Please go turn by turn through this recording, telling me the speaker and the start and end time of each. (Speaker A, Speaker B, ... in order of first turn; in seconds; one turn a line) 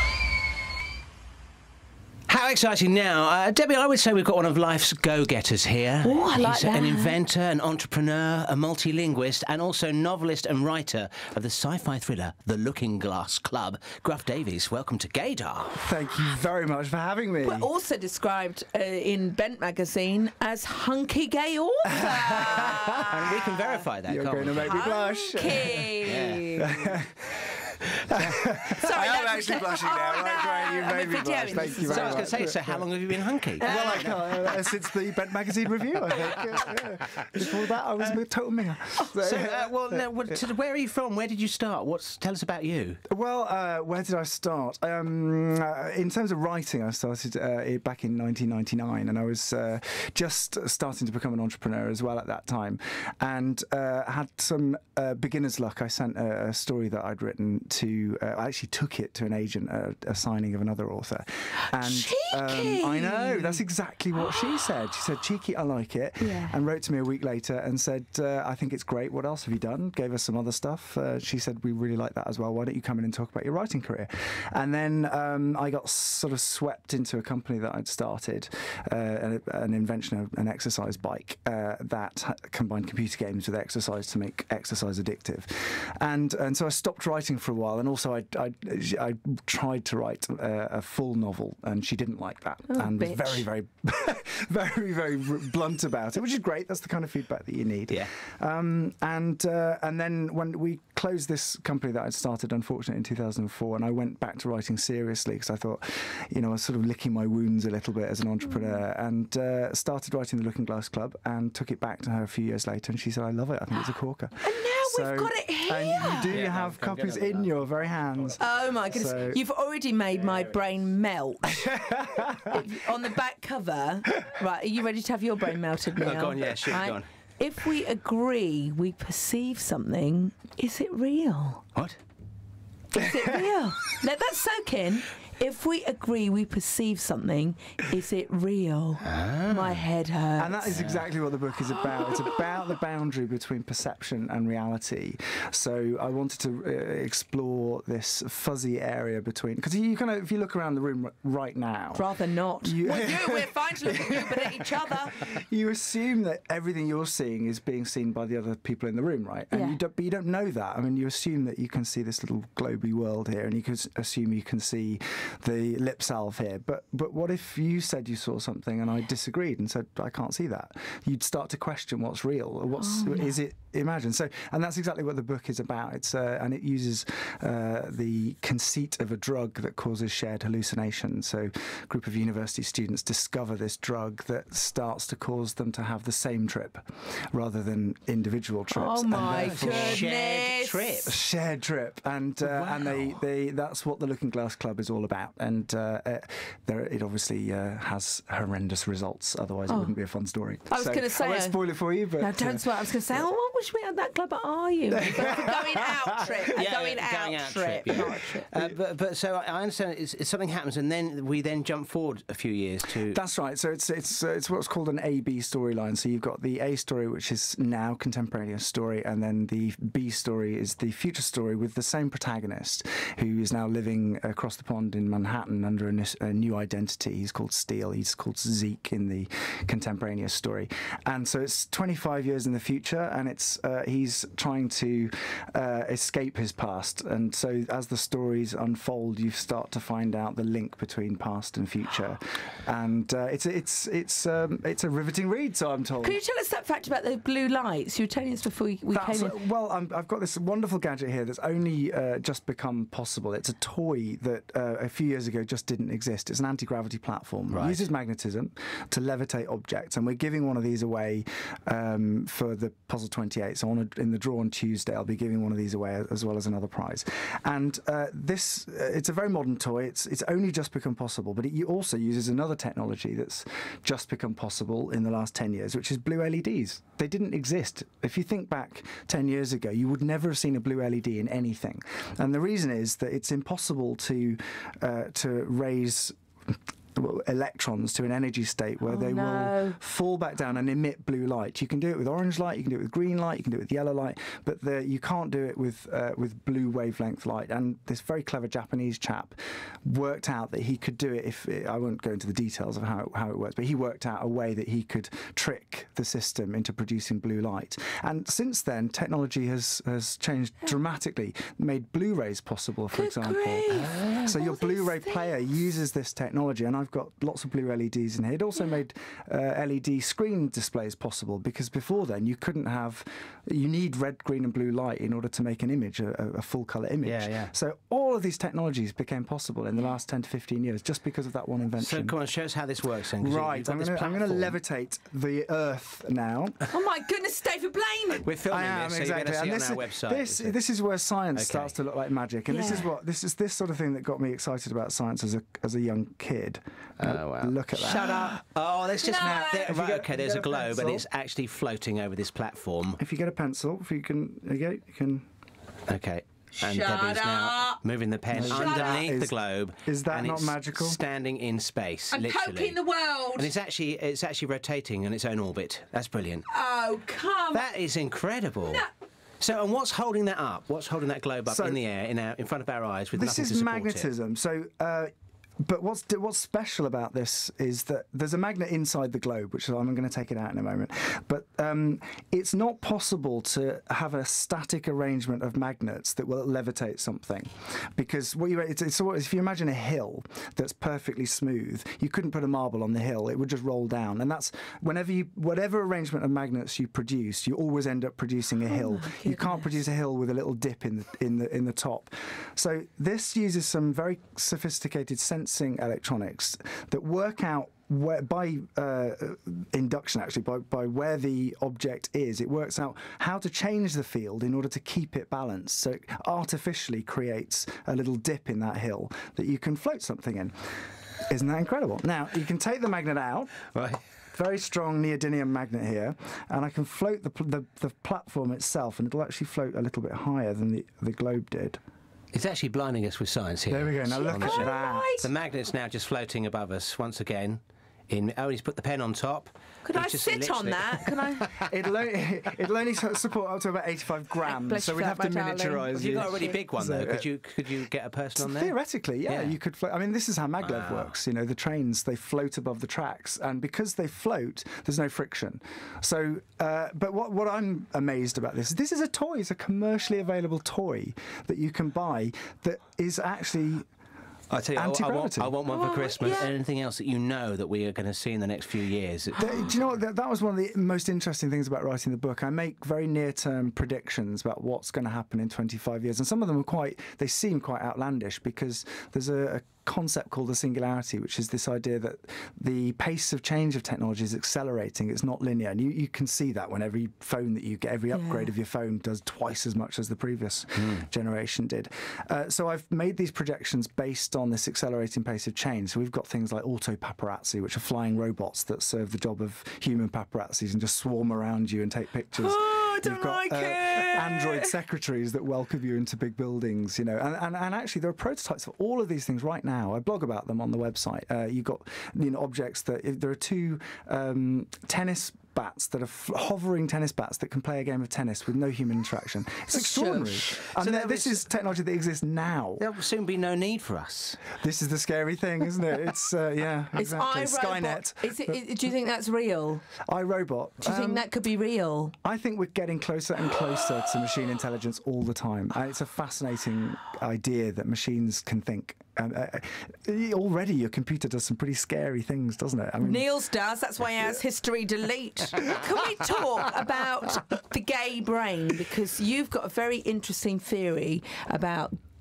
Speaker A: 2.3-15.9
Speaker B: 6.0-7.2
Speaker C: 15.8-17.7
Speaker B: 17.4-23.8
Speaker C: 21.9-23.2
Speaker A: 22.6-24.8
Speaker C: 24.0-27.5
Speaker B: 24.5-26.8
Speaker A: 26.0-26.6
Speaker C: 28.1-32.9
Speaker B: 28.6-32.4
Speaker A: 31.8-34.6
Speaker B: 33.6-34.4
Speaker C: 33.6-40.4
Speaker A: 39.2-43.0
Speaker C: 43.1-119.4
Speaker B: 61.7-63.6
Speaker B: 66.2-66.5
Speaker B: 92.7-93.4
Speaker B: 114.4-116.3
Speaker A: 116.2-117.5
Speaker B: 118.4-131.7
Speaker C: 121.6-122.6
Speaker A: 126.0-127.0
Speaker B: 132.9-140.8
Speaker A: 139.0-139.8
Speaker C: 140.4-190.0
Speaker A: 140.7-141.1
Speaker B: 151.9-155.2
Speaker B: 159.5-159.8
Speaker B: 172.8-173.3
Speaker B: 188.7-191.1
Speaker A: 189.1-191.2
Speaker C: 191.0-202.9
Speaker A: 192.4-193.2
Speaker B: 199.7-199.9
Speaker B: 200.7-208.5
Speaker C: 204.9-205.9
Speaker A: 206.5-213.2
Speaker C: 207.9-208.6
Speaker C: 213.1-246.2
Speaker B: 246.0-249.4
Speaker C: 248.9-332.1
Speaker A: 257.5-257.9
Speaker B: 288.8-289.8
Speaker B: 312.9-315.5
Speaker A: 327.0-327.5
Speaker A: 331.8-334.6
Speaker C: 333.1-336.6
Speaker B: 336.7-338.3
Speaker A: 338.2-340.6
Speaker C: 338.5-348.4
Speaker A: 341.3-341.7
Speaker B: 342.5-342.9
Speaker A: 347.0-353.0
Speaker B: 349.0-349.7
Speaker C: 349.1-351.0
Speaker C: 353.0-355.2
Speaker A: 355.9-362.8
Speaker B: 356.6-357.8
Speaker C: 358.3-361.0
Speaker B: 358.4-359.1
Speaker B: 362.1-363.5
Speaker A: 363.3-366.4
Speaker B: 366.5-367.7
Speaker A: 367.5-368.8
Speaker A: 369.4-374.1
Speaker C: 371.5-371.8
Speaker C: 373.1-420.6
Speaker B: 398.7-399.7
Speaker C: 421.3-423.6
Speaker A: 423.7-424.0
Speaker C: 424.3-431.8
Speaker A: 432.3-441.6
Speaker C: 433.7-435.1
Speaker B: 434.2-435.3
Speaker B: 439.8-441.5
Speaker C: 441.5-447.3
Speaker B: 444.4-446.6
Speaker A: 445.9-448.7
Speaker C: 448.4-463.9
Speaker A: 449.3-449.6
Speaker A: 450.6-451.1
Speaker A: 464.5-469.5
Speaker C: 464.7-465.6
Speaker B: 465.7-466.5
Speaker C: 469.4-522.8
Speaker B: 488.1-488.5
Speaker A: 490.8-491.1
Speaker B: 502.4-504.8
Speaker B: 519.7-520.6
Speaker A: 520.7-521.5
Speaker A: 522.8-524.4
Speaker C: 524.6-528.6
Speaker B: 527.0-529.9
Speaker C: 530.1-531.3
Speaker B: 530.8-532.1
Speaker C: 532.2-543.3
Speaker B: 543.0-552.0